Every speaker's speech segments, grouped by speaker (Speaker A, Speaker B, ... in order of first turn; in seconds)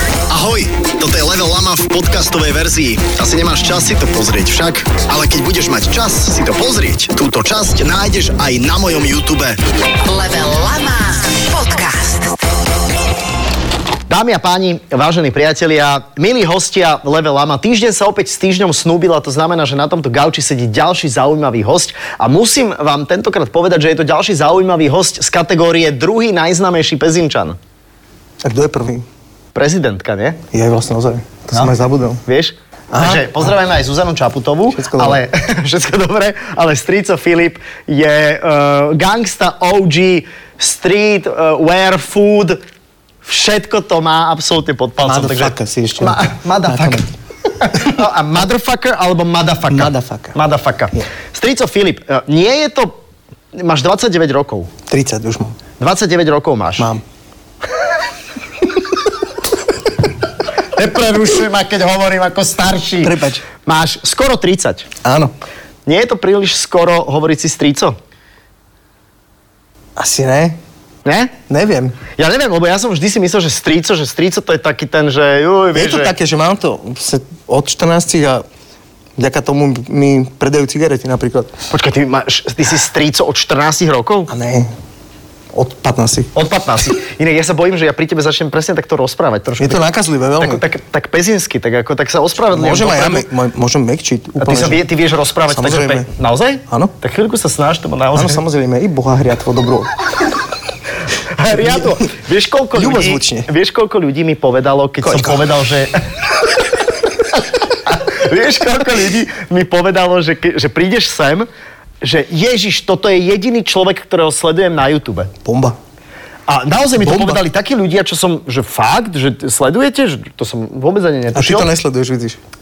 Speaker A: 0.3-9.6, 14.1-27.6, 29.5-30.4, 32.2-42.6, 43.2-53.0, 53.5-54.7, 55.8-56.9, 60.7-64.9, 65.9-68.0, 71.0-71.3, 72.2-76.1, 81.7-84.3, 86.3-89.9, 90.4-93.3, 94.4-98.4, 101.2-106.0, 107.7-111.5, 112.0-115.3, 116.5-121.7
Speaker B: 10.1-12.4
Speaker C: 28.4-29.1, 30.5-32.2, 32.9-33.5, 34.7-35.2, 45.0-47.1, 49.7-50.4, 54.9-55.6, 63.0-63.5, 65.0-65.3, 70.0-70.6, 71.5-72.0, 75.7-78.4, 79.2-81.5, 84.3-84.7, 85.5-86.3, 89.6-90.6, 92.5-94.8, 95.5-96.1, 98.1-99.9, 101.5-102.0, 102.8-103.5, 105.0-105.5, 115.5-115.8, 117.0-117.4, 121.3-122.4